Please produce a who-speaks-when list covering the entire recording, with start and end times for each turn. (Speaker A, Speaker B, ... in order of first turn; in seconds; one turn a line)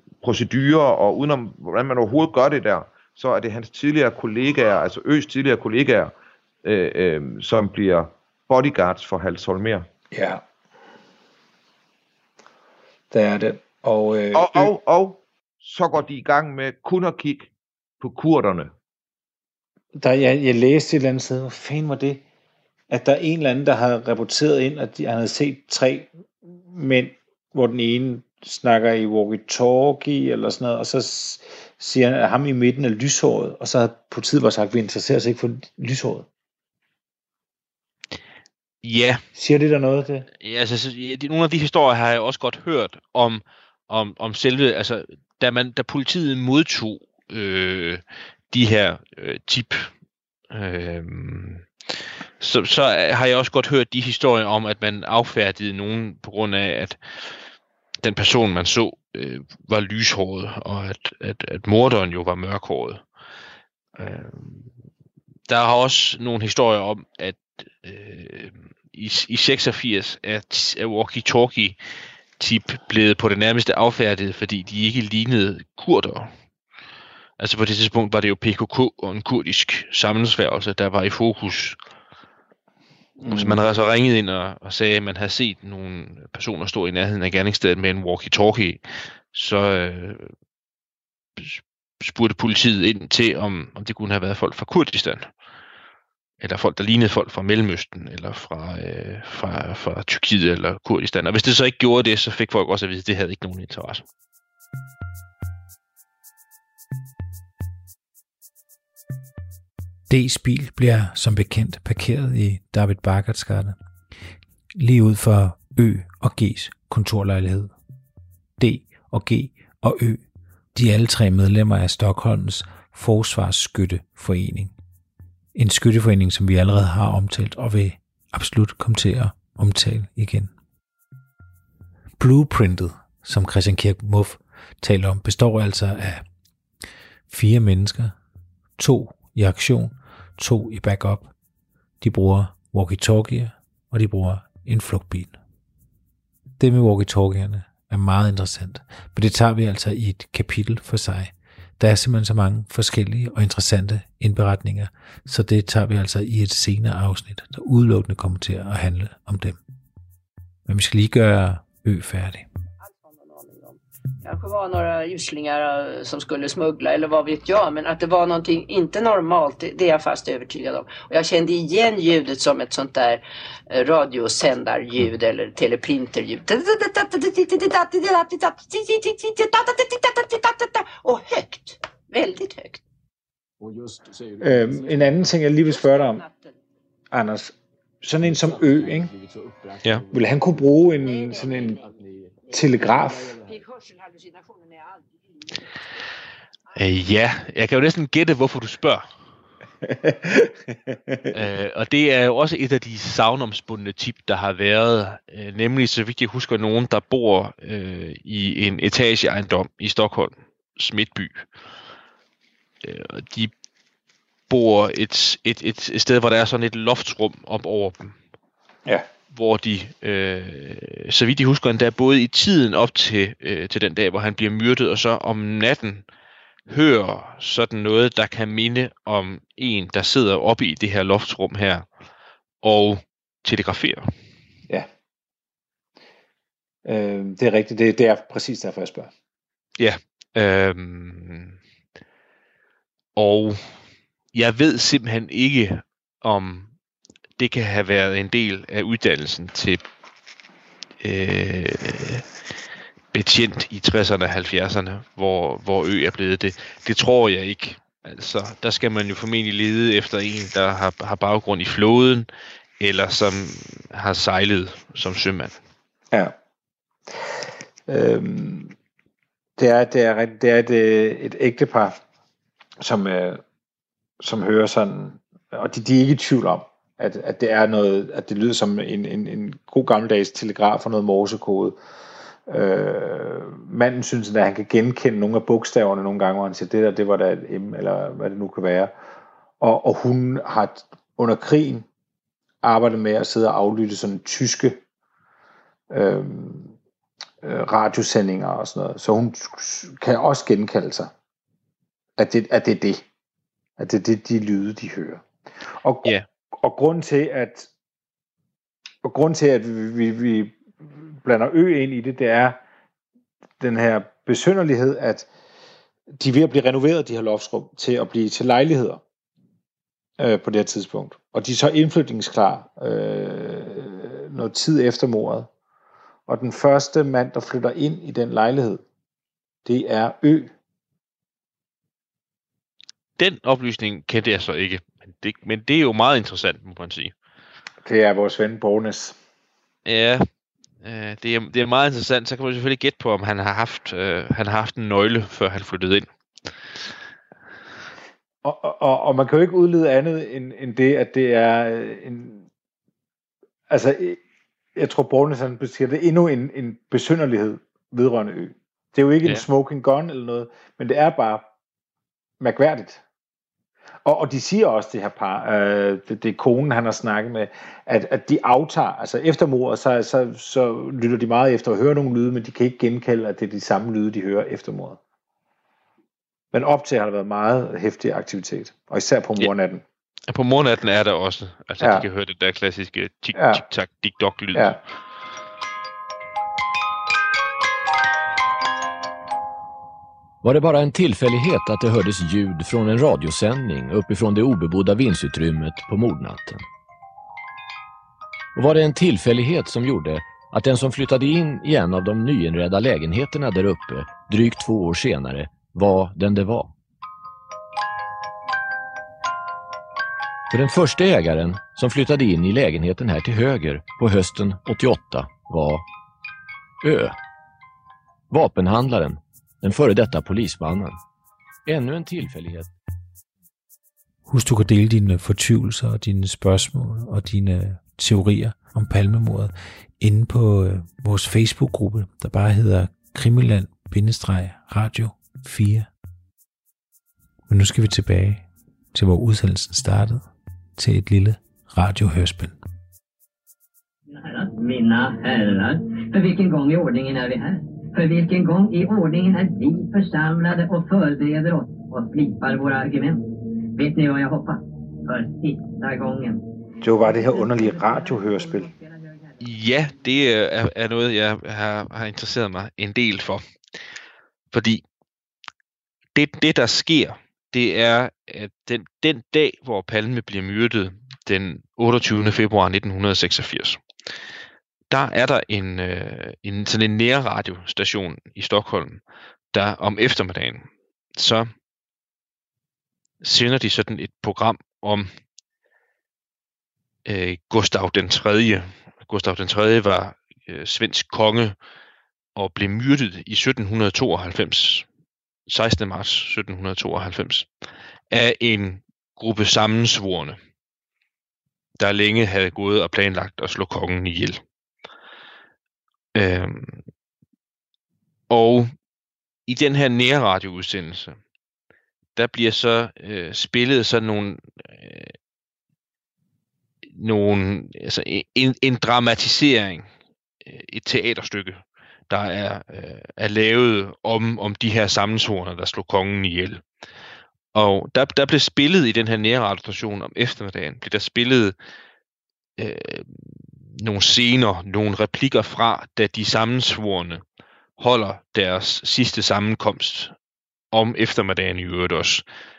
Speaker A: 0.2-6.1
Speaker A: 6.6-9.9
Speaker B: 10.1-10.4
Speaker B: 13.1-14.7
Speaker A: 14.3-17.5
Speaker A: 18.0-18.7
Speaker B: 20.0-22.2
Speaker B: 22.9-36.3
Speaker C: 38.8-39.2
Speaker B: 39.3-40.3
Speaker C: 40.4-49.9
Speaker C: 50.5-51.7
Speaker C: 52.4-57.0
Speaker C: 58.0-63.0
Speaker C: 64.0-64.7
Speaker C: 65.5-71.8
Speaker C: 72.4-76.3
Speaker C: 77.4-81.8
Speaker B: 83.2-83.6
Speaker C: 83.3-88.8
Speaker C: 89.3-90.3
Speaker C: 91.4-95.3
Speaker C: 96.4-104.0
Speaker D: 110.1-113.8
Speaker D: 114.8-117.7
Speaker D: 118.6-120.2
Speaker D: 120.7-124.7
Speaker D: 125.5-130.5
Speaker D: 132.2-136.2
Speaker D: 137.3-138.1
Speaker D: 138.8-141.3
Speaker D: 142.0-145.4
Speaker D: 146.6-159.6
Speaker D: 160.7-162.4
Speaker E: 162.8-182.8
Speaker B: 184.4-186.2
Speaker E: 186.1-186.5
Speaker B: 187.1-189.1
Speaker B: 190.1-191.8
Speaker B: 192.5-193.3
Speaker E: 193.6-194.9
Speaker C: 196.7-199.1
Speaker B: 199.9-200.5
Speaker C: 201.3-211.5
Speaker C: 212.8-213.5
Speaker C: 214.5-218.2
Speaker C: 219.3-226.1
Speaker C: 226.7-231.9
Speaker C: 232.6-234.1
Speaker B: 236.9-239.1
Speaker C: 239.8-241.6
Speaker C: 243.2-243.6
Speaker C: 244.3-246.7
Speaker C: 247.4-249.8
Speaker C: 251.0-252.3
Speaker C: 253.1-262.3
Speaker C: 262.8-265.6
Speaker B: 267.9-268.7
Speaker B: 269.6-272.0
Speaker B: 272.8-273.4
Speaker B: 274.2-281.8
Speaker B: 282.5-288.9
Speaker B: 289.6-291.8
Speaker B: 292.6-294.8
Speaker B: 295.9-296.7
Speaker B: 297.4-301.1
Speaker B: 302.2-303.0
Speaker B: 303.8-305.2
Speaker B: 305.8-307.7
Speaker B: 309.0-310.6
Speaker B: 311.2-312.6
Speaker B: 313.6-315.3
Speaker B: 316.2-319.0
Speaker B: 320.2-325.5
Speaker B: 326.3-328.8
Speaker B: 329.7-330.5
Speaker C: 333.2-337.1
Speaker B: 337.8-339.2
Speaker C: 339.8-340.2
Speaker C: 340.8-346.1
Speaker B: 348.4-352.5
Speaker B: 353.7-354.2
Speaker B: 354.8-361.4
Speaker B: 362.4-363.0
Speaker B: 364.1-375.0
Speaker B: 376.5-379.8
Speaker C: 380.3-384.8
Speaker B: 381.8-382.1
Speaker B: 383.3-383.6
Speaker F: 390.4-396.6
Speaker F: 398.6-406.7
Speaker F: 410.5-415.8
Speaker F: 416.8-417.2
Speaker F: 418.3-421.0
Speaker F: 421.7-422.7
Speaker D: 424.3-435.9
Speaker D: 437.5-442.6
Speaker G: 444.1-453.2
Speaker G: 453.7-456.4
Speaker B: 456.8-458.7
Speaker G: 457.0-459.3
Speaker C: 459.4-463.4
Speaker C: 464.5-464.8
Speaker C: 466.1-473.8
Speaker C: 474.9-479.0
Speaker C: 479.5-481.5
Speaker C: 483.2-485.1
Speaker C: 487.1-491.6
Speaker C: 492.4-494.9
Speaker C: 495.5-497.5
Speaker C: 498.1-500.4
Speaker C: 501.8-504.4
Speaker C: 506.1-506.8
Speaker C: 508.3-508.7
Speaker C: 509.5-511.2
Speaker C: 512.2-515.1
Speaker C: 516.9-519.9
Speaker C: 520.4-526.6
Speaker C: 527.5-531.5
Speaker C: 532.6-537.2
Speaker C: 537.8-540.1
Speaker C: 540.7-542.2